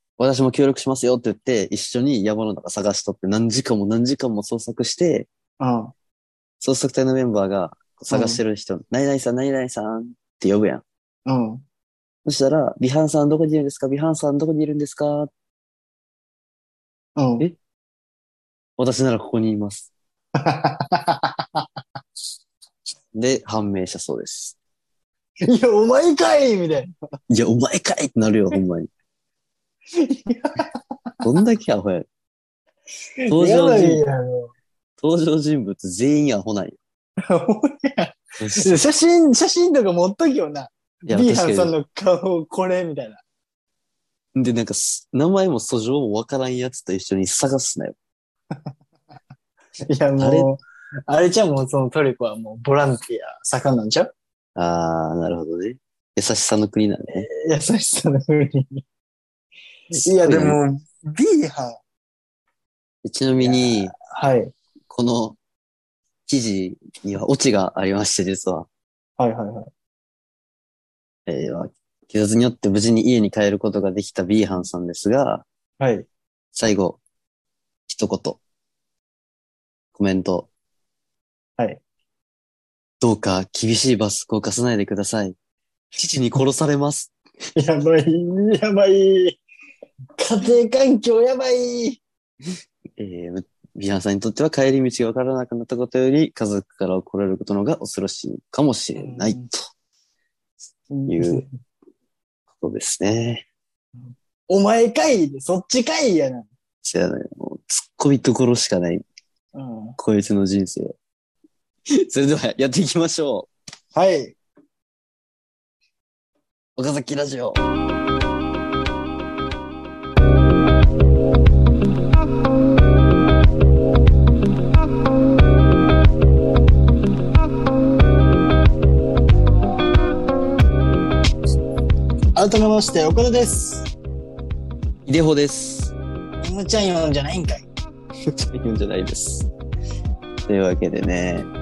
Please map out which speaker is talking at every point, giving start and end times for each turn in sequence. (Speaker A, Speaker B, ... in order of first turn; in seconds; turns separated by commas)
Speaker A: 0.2-5.3, Speaker B: 5.6-5.9, Speaker A: 6.6-10.8, Speaker B: 8.1-8.4, Speaker B: 11.2-11.7, Speaker A: 12.2-15.3, Speaker B: 17.2-17.5, Speaker A: 18.8-19.9, Speaker B: 20.4-21.6, Speaker A: 23.1-24.6, Speaker B: 25.5-26.9, Speaker A: 27.3-28.9, Speaker B: 29.9-30.8, Speaker A: 31.2-32.1, Speaker B: 33.2-34.5, Speaker A: 33.3-34.0, Speaker A: 35.0-36.8, Speaker B: 37.2-43.2, Speaker A: 38.4-38.8, Speaker A: 41.1-41.8, Speaker A: 44.4-48.0, Speaker B: 49.9-54.1, Speaker A: 50.2-50.5, Speaker A: 54.6-57.3, Speaker B: 57.1-58.8, Speaker B: 59.9-61.8, Speaker A: 60.0-60.6, Speaker A: 63.0-63.9, Speaker B: 63.4-64.5, Speaker A: 64.9-65.4, Speaker A: 66.3-68.7, Speaker B: 69.2-69.7, Speaker A: 71.3-75.5, Speaker B: 75.8-76.1, Speaker A: 76.5-77.0, Speaker A: 77.9-78.4, Speaker A: 80.0-80.5, Speaker A: 83.0-85.3, Speaker A: 86.0-87.1, Speaker B: 87.6-89.4, Speaker B: 90.2-92.0, Speaker A: 93.0-99.6, Speaker B: 99.0-99.5, Speaker B: 100.9-101.5, Speaker A: 101.1-101.5, Speaker A: 102.6-103.5, Speaker B: 104.5-106.5, Speaker A: 106.8-109.0, Speaker B: 109.5-110.0, Speaker A: 110.0-111.0, Speaker A: 111.9-113.5, Speaker B: 114.0-114.4, Speaker A: 116.8-117.6, Speaker B: 132.4-133.9, Speaker A: 135.1-135.9, Speaker B: 136.4-137.7, Speaker A: 138.3-139.5, Speaker A: 140.5-141.5